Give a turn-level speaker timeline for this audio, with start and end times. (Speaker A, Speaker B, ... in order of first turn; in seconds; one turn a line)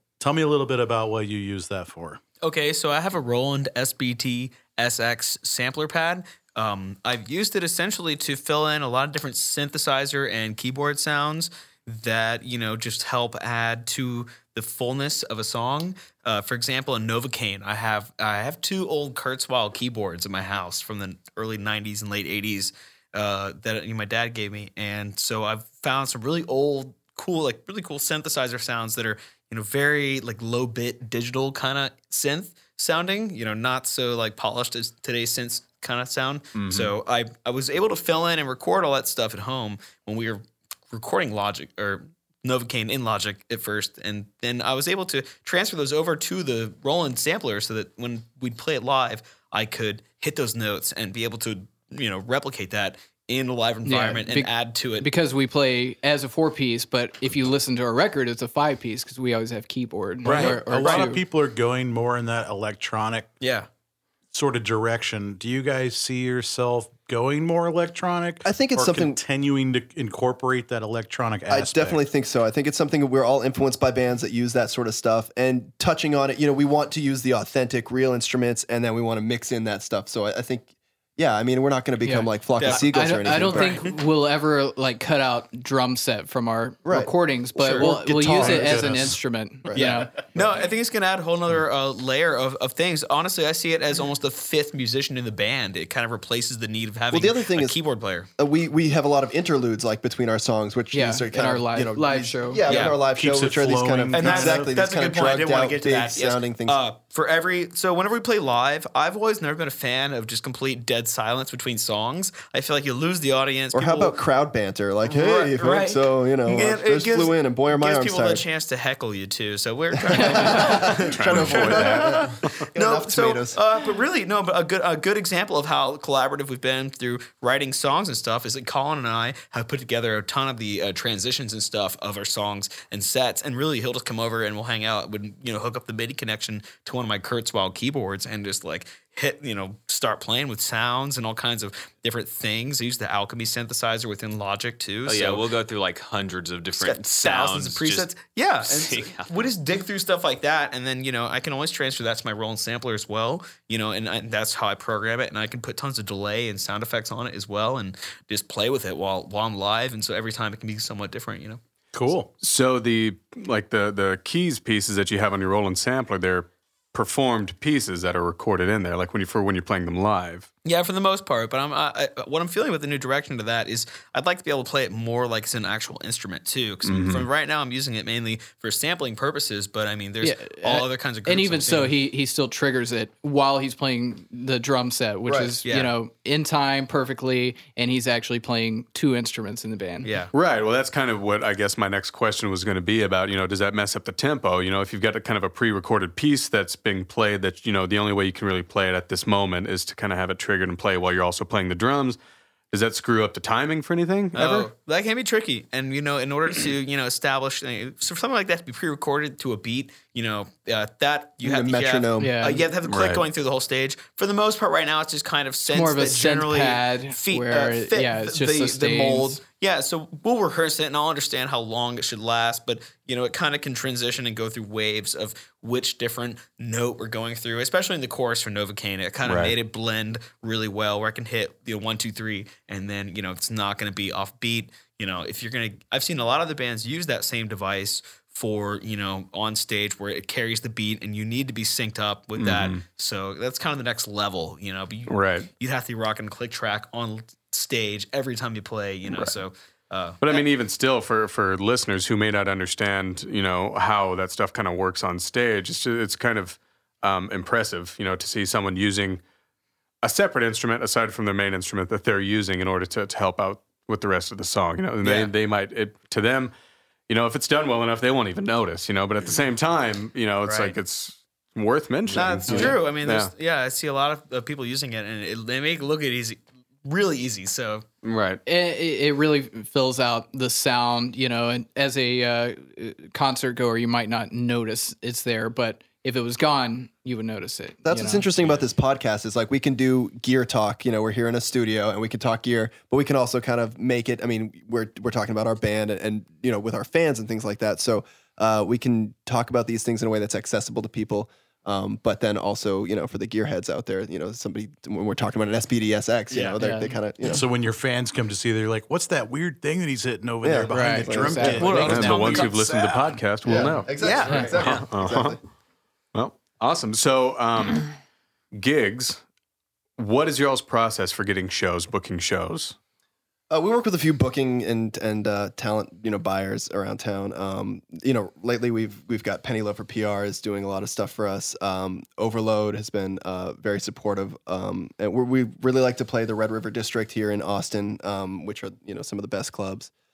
Speaker A: 0.2-2.2
Speaker B: 2.4-55.1
Speaker C: 36.5-36.9
Speaker D: 53.8-61.2
Speaker A: 60.2-63.3
Speaker E: 60.3-61.0
Speaker B: 63.4-63.7
Speaker A: 64.3-72.0
Speaker E: 68.4-69.2
Speaker E: 71.5-83.8
Speaker D: 82.0-90.1
Speaker B: 82.6-83.9
Speaker E: 86.8-88.7
Speaker A: 87.8-89.2
Speaker E: 89.7-90.1
Speaker B: 90.3-98.3
Speaker E: 97.1-97.8
Speaker E: 98.4-106.8
Speaker D: 100.9-102.6
Speaker B: 102.7-103.0
Speaker A: 103.1-104.8
Speaker B: 104.1-114.2
Speaker E: 113.7-118.4
Speaker B: 115.0-145.5
Speaker E: 120.0-123.6
Speaker C: 120.8-122.7
Speaker F: 145.1-148.1
Speaker B: 146.7-161.6
Speaker F: 148.6-149.3
Speaker A: 161.9-162.3
Speaker C: 162.4-170.5
Speaker B: 170.6-181.9
Speaker C: 176.8-177.3
Speaker D: 180.2-190.1
Speaker E: 185.2-185.6
Speaker B: 185.7-185.9
Speaker B: 190.0-190.3
Speaker C: 190.3-202.2
Speaker C: 202.7-204.7
Speaker B: 204.3-250.4
Speaker E: 211.4-212.4
Speaker D: 212.2-212.6
Speaker C: 212.8-213.2
Speaker D: 215.7-219.4
Speaker C: 229.2-229.6
Speaker C: 242.4-242.8
Speaker C: 245.1-245.5
Speaker C: 249.1-249.3
Speaker C: 250.2-259.2
Speaker C: 260.0-266.5
Speaker B: 265.0-265.3
Speaker C: 267.1-273.3
Speaker B: 270.4-270.8
Speaker F: 272.1-272.8
Speaker B: 272.1-277.9
Speaker C: 278.0-278.4
Speaker D: 278.4-288.3
Speaker E: 287.8-307.4
Speaker B: 306.3-306.6
Speaker D: 306.6-306.9
Speaker A: 307.3-313.6
Speaker E: 310.4-311.8
Speaker D: 310.7-312.5
Speaker C: 311.8-315.4
Speaker B: 312.0-312.5
Speaker E: 313.4-315.4
Speaker B: 314.0-314.6
Speaker C: 316.1-317.9
Speaker C: 318.5-319.2
Speaker C: 320.0-322.8
Speaker E: 323.5-339.9